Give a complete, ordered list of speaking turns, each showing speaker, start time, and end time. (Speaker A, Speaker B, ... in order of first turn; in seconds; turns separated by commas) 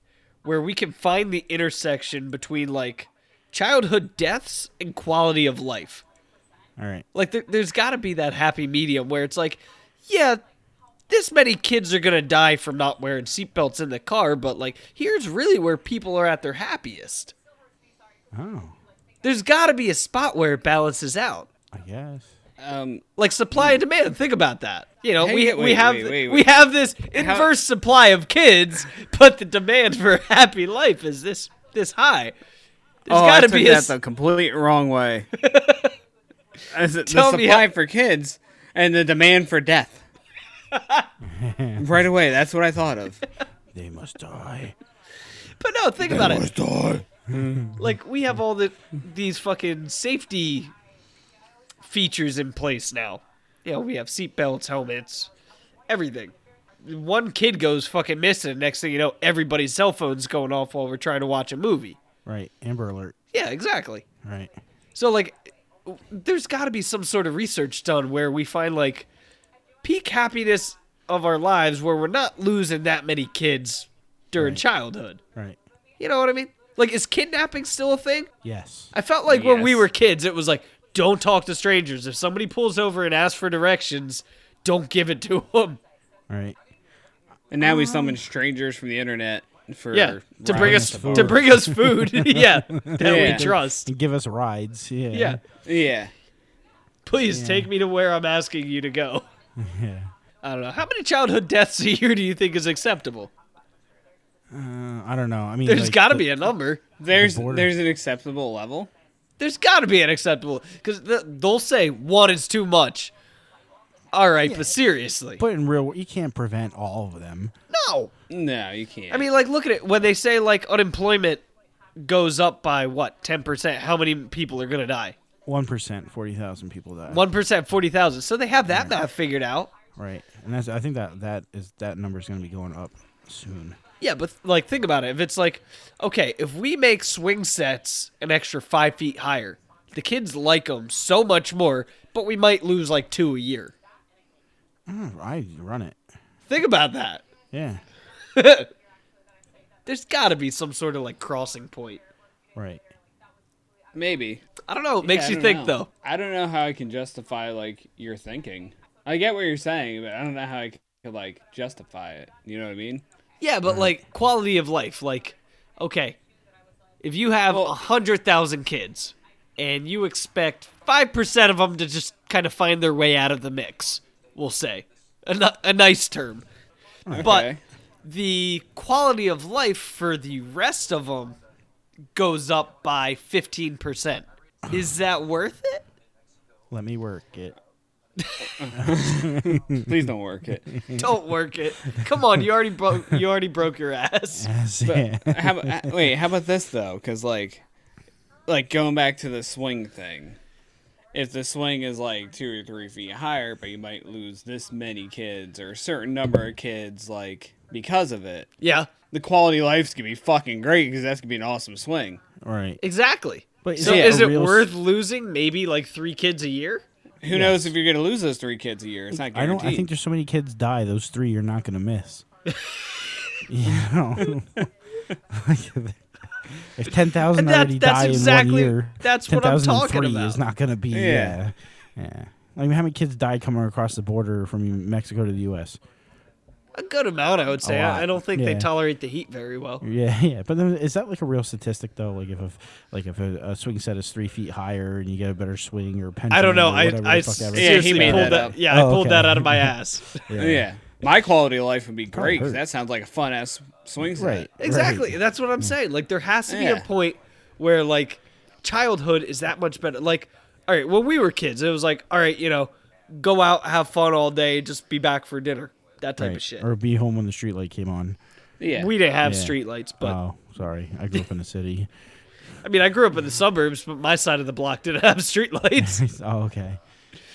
Speaker A: 0.4-6.0, Speaker B: 6.8-7.0, Speaker A: 7.1-10.4, Speaker A: 11.1-17.3, Speaker B: 18.3-18.7, Speaker A: 19.2-21.5, Speaker B: 21.7-22.3, Speaker C: 22.6-23.0, Speaker A: 23.2-32.4, Speaker C: 25.2-26.5, Speaker C: 27.1-27.5, Speaker A: 33.0-34.0, Speaker C: 33.1-35.3, Speaker A: 35.3-35.9, Speaker C: 36.7-40.0, Speaker A: 37.0-37.7, Speaker A: 40.7-41.1, Speaker B: 41.2-41.9, Speaker C: 41.8-43.2, Speaker B: 43.7-44.8, Speaker A: 45.6-46.5, Speaker C: 46.1-47.7, Speaker A: 47.8-50.7, Speaker A: 51.8-55.3, Speaker A: 55.9-62.0, Speaker B: 62.3-63.2, Speaker A: 63.3-64.0, Speaker B: 64.2-64.5, Speaker A: 65.0-69.1, Speaker A: 69.8-75.2, Speaker B: 74.3-74.6, Speaker A: 76.0-78.3, Speaker B: 78.4-78.9, Speaker A: 78.9-85.8, Speaker C: 79.3-79.9, Speaker B: 86.3-86.5, Speaker C: 87.5-91.5, Speaker A: 87.6-88.2, Speaker A: 89.9-93.9, Speaker B: 90.5-95.4, Speaker C: 93.0-93.5, Speaker A: 95.1-95.4, Speaker C: 95.6-96.1, Speaker A: 97.0-99.3, Speaker B: 97.2-97.7, Speaker B: 99.6-100.1, Speaker A: 100.4-103.3, Speaker B: 104.5-106.5, Speaker A: 105.7-106.8, Speaker C: 107.0-108.9, Speaker B: 107.1-107.7, Speaker A: 109.4-113.1, Speaker A: 114.1-115.4, Speaker B: 114.5-114.7, Speaker B: 115.4-117.5, Speaker A: 117.7-118.1, Speaker C: 118.3-119.3, Speaker A: 119.1-121.4, Speaker A: 122.0-125.2, Speaker B: 125.5-127.3, Speaker A: 127.1-129.7, Speaker B: 128.6-129.0, Speaker B: 129.9-133.8, Speaker A: 134.0-143.7, Speaker B: 144.9-146.0, Speaker A: 146.5-147.2, Speaker B: 147.5-147.8, Speaker A: 148.3-148.7, Speaker A: 149.9-152.0, Speaker B: 152.6-152.8, Speaker C: 153.9-154.5, Speaker A: 154.7-155.9, Speaker C: 155.0-163.0, Speaker A: 163.4-166.2, Speaker B: 163.7-164.0, Speaker A: 167.0-176.4, Speaker B: 177.1-177.4, Speaker C: 177.1-177.6, Speaker A: 177.2-181.4, Speaker A: 182.1-185.9, Speaker B: 186.7-187.6, Speaker A: 188.2-188.5, Speaker C: 188.6-190.8, Speaker B: 188.7-190.1, Speaker B: 190.7-191.1, Speaker A: 190.9-194.5, Speaker B: 194.3-196.1, Speaker C: 194.8-197.6, Speaker C: 198.5-200.4, Speaker C: 201.1-208.5, Speaker A: 208.6-208.9, Speaker C: 209.1-212.2, Speaker B: 212.4-212.8, Speaker A: 212.8-216.8, Speaker B: 213.6-214.7, Speaker C: 213.8-214.2, Speaker C: 217.2-219.9, Speaker B: 217.3-217.7, Speaker B: 219.1-222.2, Speaker A: 222.5-223.4, Speaker B: 223.5-224.7, Speaker B: 225.3-235.8, Speaker A: 227.3-230.4, Speaker C: 230.9-231.4, Speaker A: 236.7-239.8, Speaker B: 237.6-238.7, Speaker B: 239.8-250.7, Speaker A: 246.3-250.2, Speaker C: 247.5-248.6, Speaker C: 250.3-254.5, Speaker B: 252.1-252.6, Speaker B: 254.0-255.7, Speaker A: 254.6-266.7, Speaker C: 256.5-256.9, Speaker B: 266.2-268.2, Speaker C: 268.6-268.9, Speaker A: 268.7-270.2, Speaker B: 269.2-271.9, Speaker A: 272.6-276.0, Speaker B: 275.8-276.8